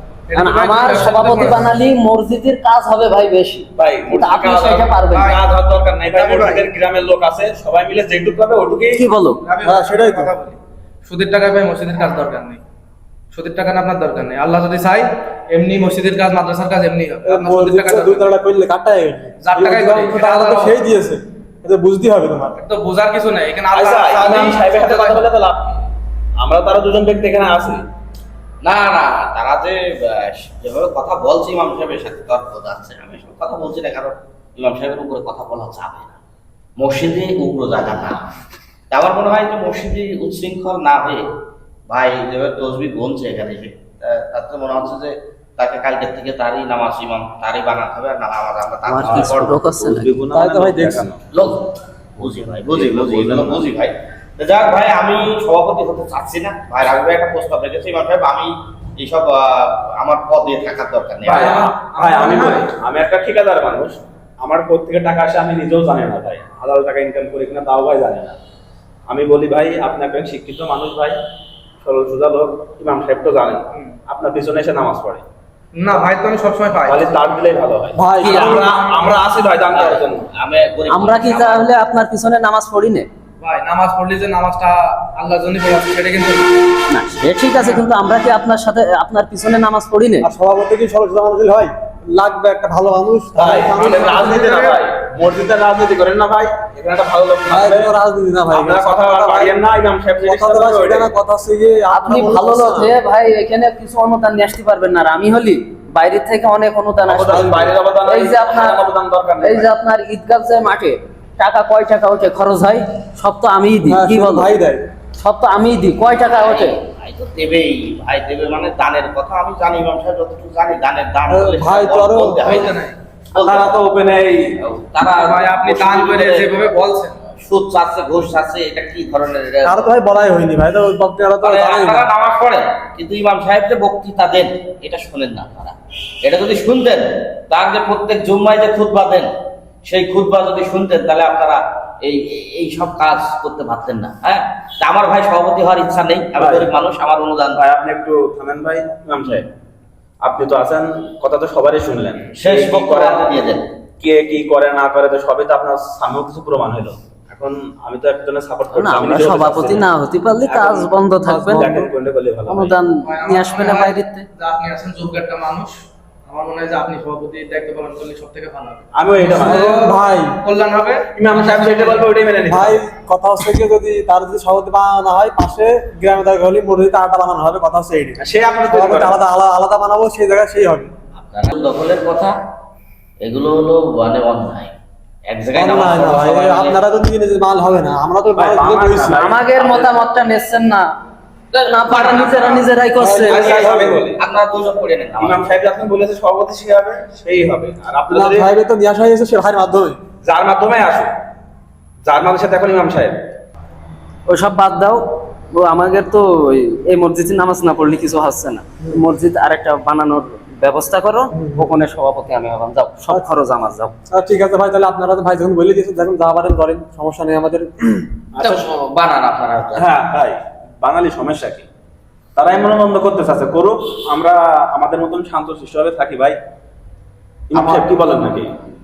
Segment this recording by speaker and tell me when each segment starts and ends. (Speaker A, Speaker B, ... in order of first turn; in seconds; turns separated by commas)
Speaker A: 0.3-1.7, Speaker B: 0.3-5.3, Speaker C: 3.8-9.1, Speaker A: 5.1-5.4, Speaker A: 6.0-6.7, Speaker B: 8.9-9.4, Speaker A: 9.4-12.6, Speaker D: 9.6-10.3, Speaker A: 13.3-18.3, Speaker D: 17.2-22.6, Speaker A: 19.4-20.8, Speaker A: 22.6-25.3, Speaker C: 23.7-25.8, Speaker C: 26.4-27.8, Speaker E: 28.6-36.2, Speaker E: 36.8-38.2, Speaker E: 38.9-41.2, Speaker E: 41.9-49.6, Speaker B: 48.9-50.1, Speaker C: 49.0-51.2, Speaker D: 50.3-51.1, Speaker E: 51.3-51.6, Speaker E: 52.2-61.5, Speaker C: 52.4-53.6, Speaker A: 61.2-62.7, Speaker C: 61.2-68.3, Speaker C: 69.1-71.2, Speaker C: 71.8-75.2, Speaker A: 75.8-77.2, Speaker C: 76.8-80.3, Speaker D: 77.9-78.7, Speaker A: 78.2-79.5, Speaker E: 79.7-81.7, Speaker B: 80.9-83.1, Speaker A: 83.4-86.5, Speaker B: 86.9-90.3, Speaker A: 87.6-87.8, Speaker D: 90.2-94.3, Speaker C: 93.3-97.9, Speaker A: 93.7-94.8, Speaker D: 97.5-99.6, Speaker C: 98.5-101.1, Speaker D: 100.2-103.0, Speaker B: 101.9-108.9, Speaker C: 107.0-109.7, Speaker B: 109.4-114.5, Speaker D: 113.8-114.8, Speaker B: 115.2-116.8, Speaker E: 116.2-122.8, Speaker D: 121.3-122.5, Speaker A: 122.4-123.0, Speaker E: 123.3-123.8, Speaker C: 123.4-124.5, Speaker E: 124.6-126.6, Speaker A: 125.1-127.2, Speaker E: 127.4-129.9, Speaker D: 129.6-132.1, Speaker E: 131.4-139.3, Speaker E: 139.9-147.6, Speaker C: 146.4-146.7, Speaker C: 147.6-149.5, Speaker C: 150.2-153.3, Speaker E: 152.3-153.6, Speaker C: 154.0-159.9, Speaker B: 158.7-161.8, Speaker C: 160.4-162.8, Speaker D: 161.2-161.7, Speaker B: 162.4-164.2, Speaker A: 163.0-165.7, Speaker A: 166.3-172.1, Speaker C: 168.9-169.6, Speaker D: 169.3-170.3, Speaker C: 171.2-172.8, Speaker D: 172.5-180.9, Speaker C: 178.2-179.2, Speaker E: 181.2-182.3, Speaker E: 183.2-184.7, Speaker E: 185.2-186.8, Speaker D: 185.5-189.3, Speaker C: 188.3-190.0, Speaker B: 189.2-190.9, Speaker E: 191.6-192.7, Speaker B: 191.6-193.3, Speaker D: 192.9-194.1, Speaker C: 193.2-194.2, Speaker E: 193.2-195.5, Speaker C: 195.2-198.5, Speaker D: 198.1-200.0, Speaker C: 200.2-201.1, Speaker C: 202.0-203.2, Speaker B: 204.3-213.9, Speaker D: 211.3-211.7, Speaker D: 214.1-218.1, Speaker C: 218.3-218.7, Speaker E: 218.4-219.9, Speaker C: 219.8-221.7, Speaker C: 222.3-226.4, Speaker C: 227.5-228.6, Speaker D: 227.5-227.9